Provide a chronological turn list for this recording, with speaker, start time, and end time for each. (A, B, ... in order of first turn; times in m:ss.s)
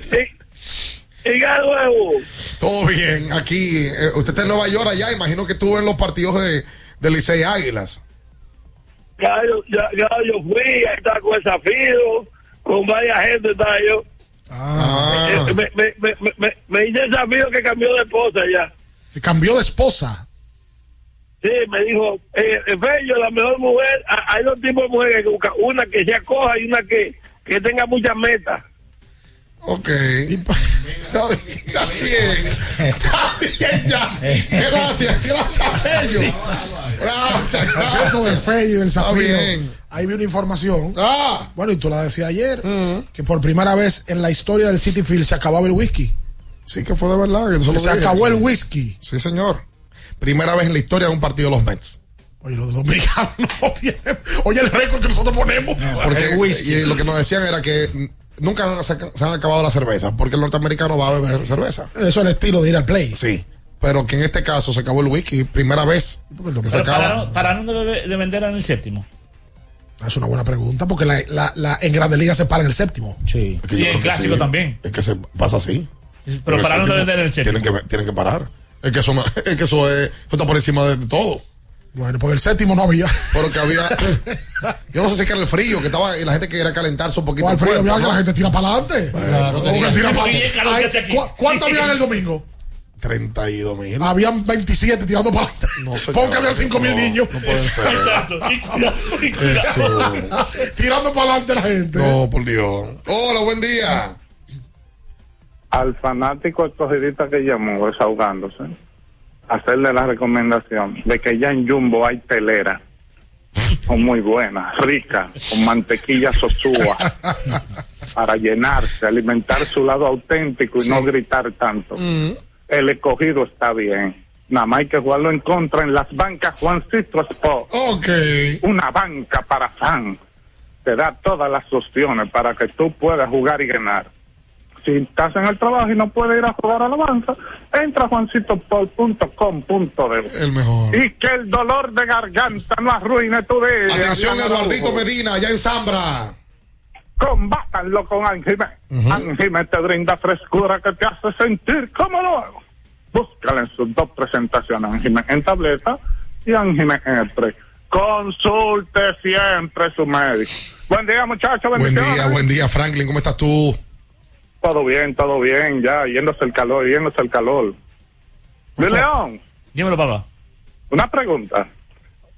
0:01.2-0:02.2 A
0:02.6-0:08.0 B
0:09.2-0:14.0 A
0:14.5-0:15.2 C
0:14.8-0:15.6 B
0:15.1-0:18.7 A
0:19.1-0:20.2 C
0:21.4-0:28.6 A
0:29.6-0:30.4 B
0:30.3-0:30.6 C
0:31.1-0:32.6 B
0:32.8-0:33.0 D
0:33.1-0:33.4 C
0:33.4-0:35.3 B
0:34.2-0:35.0 D
0:35.1-0:36.5 C
0:35.9-0:38.4 B
0:37.7-0:41.0 C
0:37.8-0:38.1 D
0:39.0-0:39.8 B
0:41.0-0:41.5 B
0:41.5-0:46.1 C
0:42.6-0:43.1 B
0:46.7-0:48.5 B
0:47.7-0:49.0 C
0:49.0-0:49.6 B
0:50.2-0:52.0 B
0:52.4-0:56.3 C
0:55.8-0:57.1 D
0:56.0-1:01.9 B
1:02.0-1:03.2 C
1:03.1-1:07.2 B
1:06.3-1:07.4 C
1:06.7-1:09.0 E
1:10.0-1:13.2 C
1:13.2-1:13.6 D
1:13.6-1:15.9 B
1:13.7-1:14.8 E
1:16.3-1:17.7 E
1:16.5-1:21.4 B
1:21.9-1:24.4 C
1:23.3-1:24.2 B
1:24.9-1:28.2 B
1:27.4-1:32.4 C
1:29.2-1:30.3 B
1:29.2-1:30.4 D
1:29.7-1:32.0 E
1:33.0-1:34.1 B
1:34.0-1:42.2 C
1:35.8-1:38.3 B
1:37.6-1:39.9 E
1:39.4-1:40.4 B
1:42.0-1:44.2 B
1:45.7-1:48.7 F
1:49.5-1:52.8 F
1:53.9-1:57.1 F
1:58.2-2:02.0 F
2:00.8-2:01.1 B
2:02.0-2:02.4 B
2:02.7-2:07.7 F
2:07.7-2:08.6 B
2:08.6-2:10.2 F
2:10.8-2:14.1 F
2:14.8-2:20.3 F
2:20.3-2:21.0 B
2:20.9-2:25.0 F
2:23.9-2:26.3 B
2:27.2-2:32.6 F
2:28.9-2:29.3 B
2:33.1-2:42.4 F
2:41.7-2:43.8 B
2:44.6-2:47.7 F
2:48.8-2:49.4 F
2:49.7-2:50.2 E
2:50.9-2:51.7 F